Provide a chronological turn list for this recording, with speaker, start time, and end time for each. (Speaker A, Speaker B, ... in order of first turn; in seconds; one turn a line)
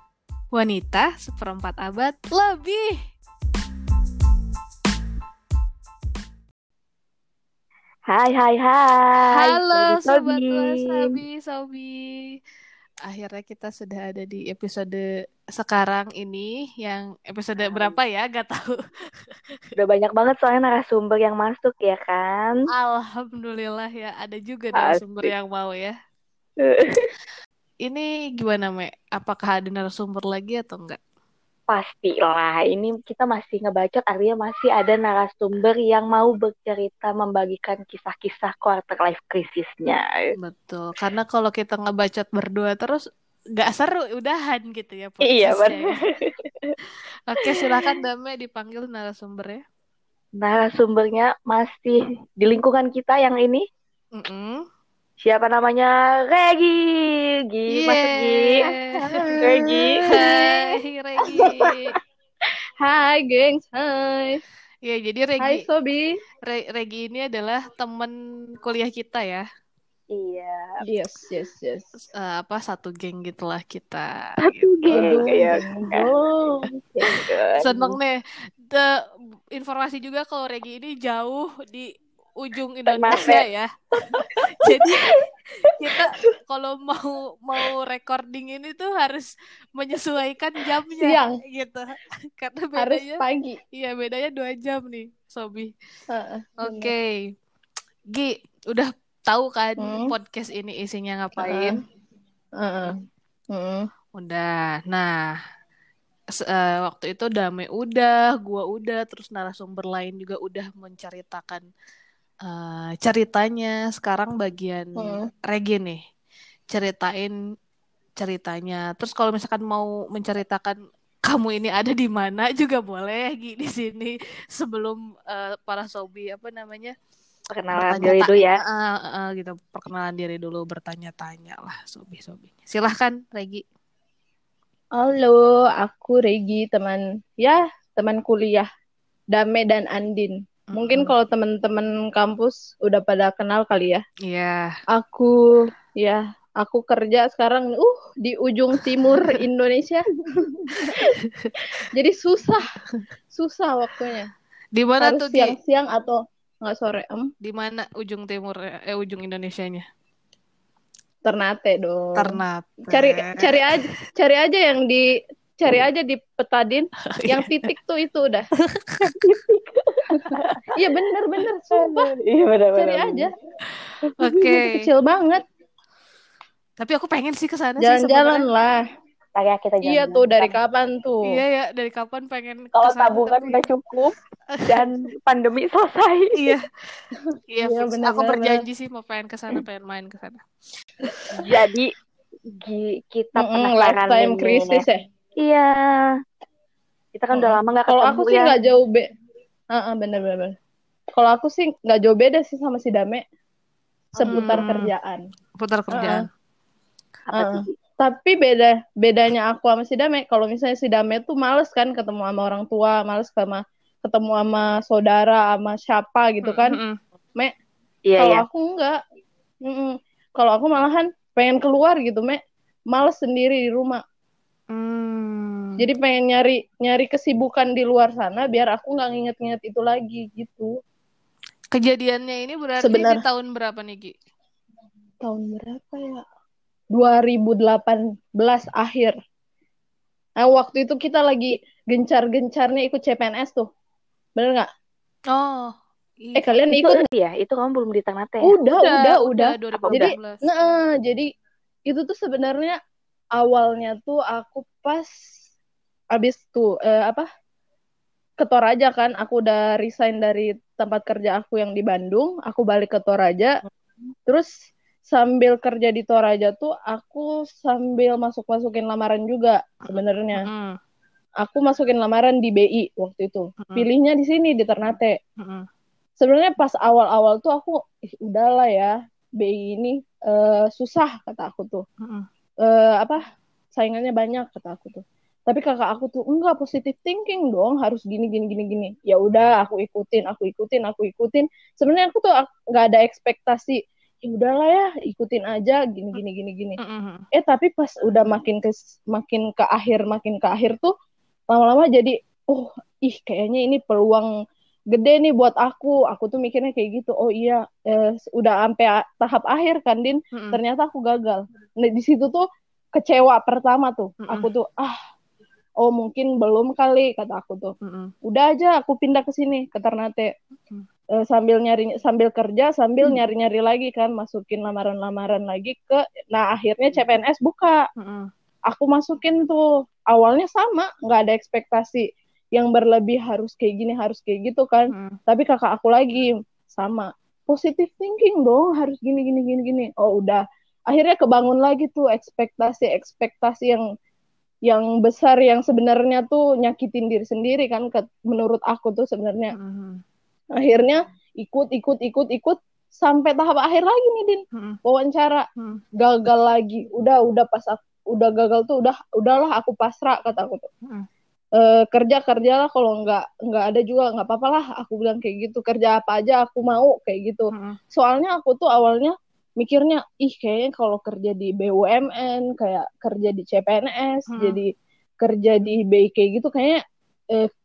Speaker A: 0.5-3.0
Speaker B: 8.1-11.2
Speaker A: 9.3-12.4
Speaker A: 13.1-15.0
Speaker A: 15.6-18.8
Speaker B: 17.6-17.9
Speaker B: 19.8-22.6
Speaker A: 22.7-25.9
Speaker B: 24.8-25.3
Speaker B: 26.6-27.1
Speaker A: 27.9-31.0
Speaker B: 31.7-40.3
Speaker A: 40.4-43.0
Speaker A: 43.6-46.0
Speaker B: 45.2-46.8
Speaker A: 47.3-49.6
Speaker B: 47.4-47.9
Speaker B: 50.4-53.6
Speaker A: 54.1-54.6
Speaker B: 55.2-58.7
Speaker A: 57.7-59.2
Speaker C: 59.0-60.7
Speaker B: 59.4-60.0
Speaker A: 60.1-61.9
Speaker C: 61.3-61.8
Speaker C: 62.8-64.4
Speaker A: 64.8-65.6
Speaker C: 65.4-66.2
Speaker A: 66.5-69.4
Speaker B: 70.1-70.8
Speaker C: 70.8-71.9
Speaker A: 72.0-75.4
Speaker B: 74.4-76.1
Speaker C: 74.9-76.7
Speaker B: 77.0-78.0
Speaker A: 77.6-78.9
Speaker A: 79.5-85.1
Speaker B: 82.9-83.4
Speaker B: 84.6-85.0
Speaker A: 85.8-93.2
Speaker C: 91.0-91.4
Speaker C: 92.8-93.6
Speaker A: 93.7-95.7
Speaker C: 96.1-96.9
Speaker A: 96.6-97.1
Speaker A: 98.1-101.8
Speaker C: 99.8-100.1
Speaker C: 101.4-101.8
Speaker C: 102.6-102.9
Speaker C: 103.5-103.8
Speaker A: 104.2-105.1
Speaker A: 106.3-111.6
Speaker A: 112.5-116.0
Speaker C: 115.0-115.3
Speaker A: 116.7-117.3
Speaker A: 118.2-126.9
Speaker B: 127.5-128.6
Speaker A: 127.7-133.6
Speaker C: 134.9-138.7
Speaker C: 139.3-144.0
Speaker A: 140.7-141.1
Speaker A: 144.2-144.7
Speaker C: 144.9-145.3
Speaker C: 146.0-151.1
Speaker A: 149.0-149.3
Speaker C: 151.9-152.7
Speaker C: 153.3-154.3
Speaker A: 154.7-155.6
Speaker C: 155.0-157.3
Speaker A: 157.4-159.8
Speaker C: 161.2-165.1
Speaker A: 162.2-163.8
Speaker C: 165.6-168.4
Speaker A: 167.1-167.5
Speaker A: 168.6-169.4
Speaker B: 169.1-170.5
Speaker C: 170.2-172.1
Speaker B: 171.7-173.2
Speaker C: 172.8-173.3
Speaker A: 173.7-174.9
Speaker B: 174.2-174.6
Speaker C: 174.8-175.4
Speaker A: 176.8-178.4
Speaker C: 177.8-178.8
Speaker B: 179.3-180.5
Speaker C: 179.8-181.3
Speaker A: 181.3-183.6
Speaker B: 182.8-186.4
Speaker A: 184.5-184.8
Speaker A: 186.3-186.7
Speaker A: 187.5-190.4
Speaker C: 187.6-188.6
Speaker A: 191.1-191.6
Speaker B: 191.3-191.9
Speaker B: 192.5-194.8
Speaker C: 193.3-195.0
Speaker B: 195.4-196.1
Speaker B: 197.1-198.5
Speaker C: 197.3-199.0
Speaker C: 199.7-200.5
Speaker C: 201.1-203.2
Speaker C: 204.2-205.2
Speaker B: 204.2-204.6
Speaker A: 204.3-204.9
Speaker A: 205.6-206.2
Speaker C: 205.9-206.2
Speaker B: 207.3-207.7
Speaker C: 207.3-216.8
Speaker A: 216.4-217.0
Speaker B: 218.1-218.4
Speaker C: 218.2-219.0
Speaker C: 219.7-222.4
Speaker C: 222.9-224.0
Speaker A: 224.7-225.8
Speaker C: 225.8-230.7
Speaker A: 231.7-234.1
Speaker C: 232.8-233.2
Speaker C: 235.2-236.2
Speaker C: 236.9-239.1
Speaker C: 240.4-243.7
Speaker C: 244.4-244.7
Speaker A: 245.3-246.4
Speaker C: 246.3-247.1
Speaker B: 246.7-248.6
Speaker C: 248.4-251.3
Speaker A: 248.8-250.4
Speaker B: 249.7-250.1
Speaker C: 251.9-252.8
Speaker C: 253.4-255.1
Speaker C: 256.1-257.3
Speaker C: 258.4-263.6
Speaker C: 265.1-270.4
Speaker A: 269.9-270.8
Speaker C: 271.4-275.2
Speaker A: 275.4-275.7
Speaker C: 276.2-281.8
Speaker A: 282.0-282.3
Speaker C: 282.6-283.2
Speaker C: 283.8-296.8
Speaker A: 296.8-297.2
Speaker C: 297.3-300.9
Speaker C: 301.5-304.3
Speaker C: 304.9-312.4
Speaker A: 310.3-310.6
Speaker C: 312.9-315.0
Speaker C: 315.8-317.7
Speaker A: 317.8-318.1
Speaker C: 318.3-320.3
Speaker C: 321.2-327.8
Speaker A: 328.0-328.3
Speaker C: 328.7-343.8
Speaker A: 334.9-335.2
Speaker C: 344.7-349.5
Speaker A: 349.5-350.0
Speaker C: 350.6-355.5
Speaker A: 354.5-354.8
Speaker A: 355.6-355.8
Speaker C: 356.0-360.7
Speaker C: 361.6-374.7
Speaker A: 367.5-367.8
Speaker A: 374.3-374.6
Speaker C: 375.2-376.8